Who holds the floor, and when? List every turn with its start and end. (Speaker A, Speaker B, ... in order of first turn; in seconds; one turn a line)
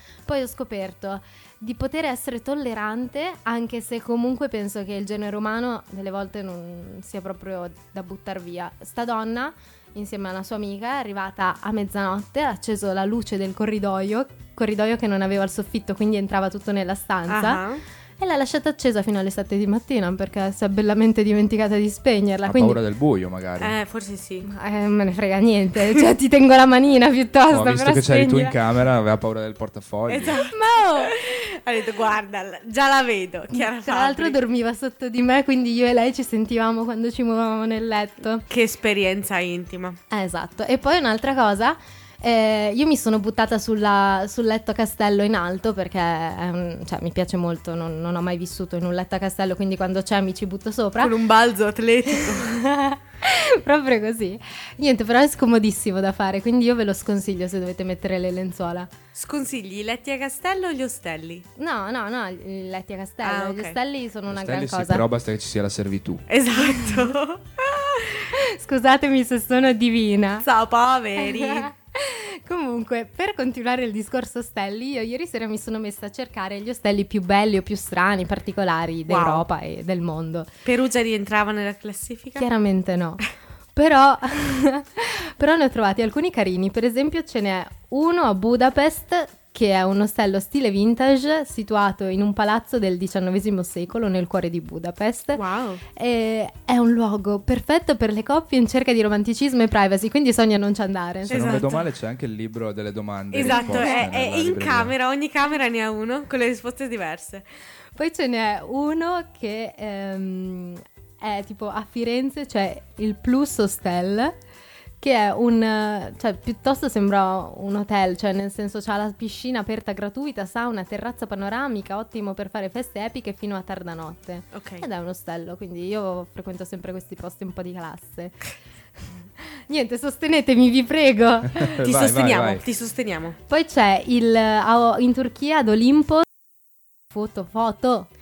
Speaker A: 0.3-17.6
Speaker B: 17.3-17.8
Speaker A: 18.2-22.8
Speaker C: 22.4-23.8
Speaker B: 23.6-24.5
Speaker A: 24.4-28.5
Speaker C: 27.5-30.4
Speaker B: 30.1-34.4
Speaker A: 30.4-31.1
Speaker A: 33.5-38.4
Speaker B: 38.5-40.0
Speaker A: 40.1-51.1
Speaker B: 51.0-52.5
Speaker A: 52.1-58.9
Speaker B: 59.1-61.5
Speaker A: 61.6-65.0
Speaker B: 63.2-63.8
Speaker C: 64.3-66.2
Speaker B: 66.3-68.2
Speaker A: 66.5-67.1
Speaker A: 68.3-70.5
Speaker B: 70.4-71.7
Speaker A: 71.2-80.5
Speaker B: 79.1-79.4
Speaker B: 80.6-82.4
Speaker A: 82.4-95.4
Speaker B: 95.3-95.8
Speaker A: 96.0-101.7
Speaker B: 101.3-101.8
Speaker C: 101.3-104.9
Speaker B: 103.3-107.4
Speaker A: 103.4-104.1
Speaker A: 108.0-114.3
Speaker A: 115.0-128.5
Speaker B: 124.5-124.8
Speaker A: 129.7-131.7
Speaker C: 131.6-132.6
Speaker B: 131.8-133.4
Speaker A: 133.5-136.2
Speaker A: 137.1-138.1